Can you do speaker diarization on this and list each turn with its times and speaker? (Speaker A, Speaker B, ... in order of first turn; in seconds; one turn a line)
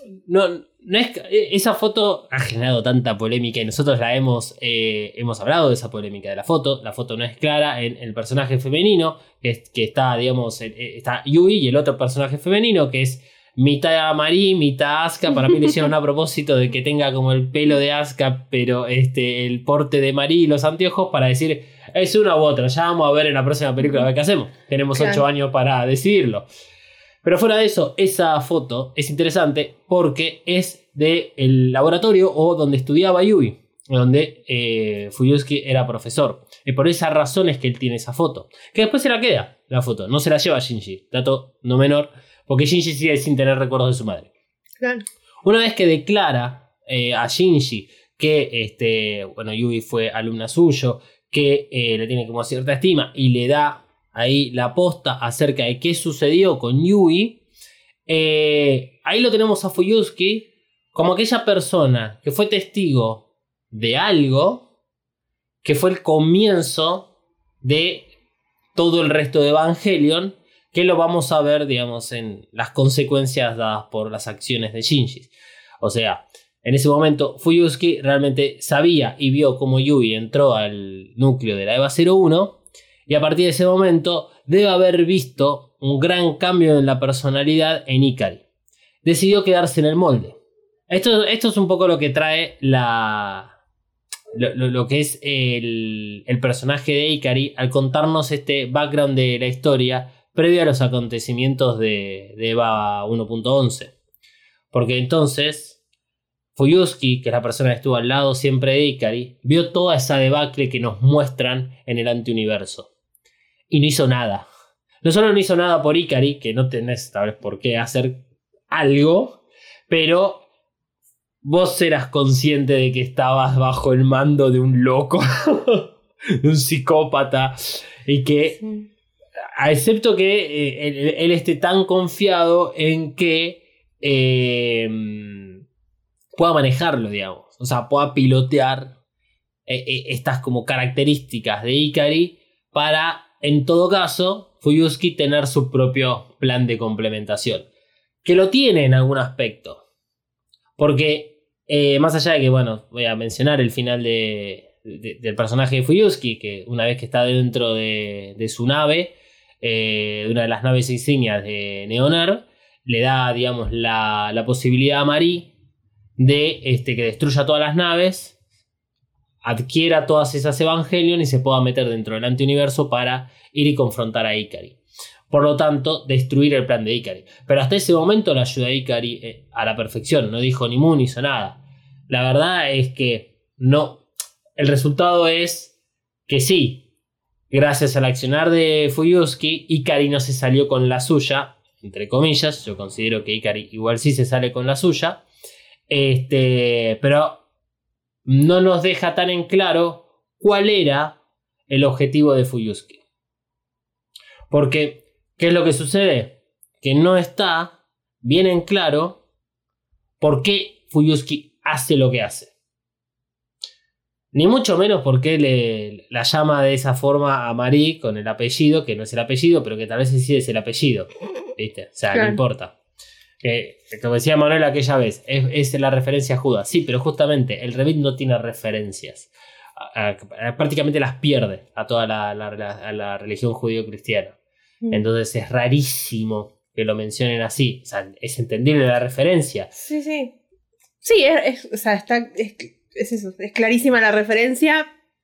Speaker A: 0.3-26.4
Speaker B: 24.9-25.2
Speaker A: 27.2-44.3
Speaker B: 44.8-45.0
Speaker A: 45.4-57.4
Speaker A: 58.1-64.7
Speaker A: 65.6-67.1
Speaker A: 67.6-68.1
Speaker A: 68.7-88.4
Speaker A: 89.0-90.4
Speaker A: 90.9-93.5
Speaker A: 94.3-103.9
Speaker A: 104.7-105.8
Speaker A: 106.5-112.9
Speaker A: 113.7-114.5
Speaker A: 115.0-120.4
Speaker A: 121.4-128.6
Speaker B: 128.6-128.9
Speaker A: 129.6-135.6
Speaker A: 136.3-138.9
Speaker A: 139.7-147.7
Speaker A: 148.2-149.8
Speaker A: 150.8-165.5
Speaker A: 166.2-168.3
Speaker A: 169.4-174.8
Speaker A: 175.3-184.0
Speaker A: 184.6-185.7
Speaker A: 186.3-186.8
Speaker A: 187.5-195.2
Speaker A: 195.9-197.4
Speaker A: 198.2-201.2
Speaker A: 201.7-203.0
Speaker A: 204.5-209.2
Speaker A: 210.2-212.5
Speaker A: 214.3-222.7
Speaker B: 222.1-222.4
Speaker A: 223.4-234.3
Speaker A: 234.9-239.7
Speaker B: 239.8-240.3
Speaker B: 241.0-244.9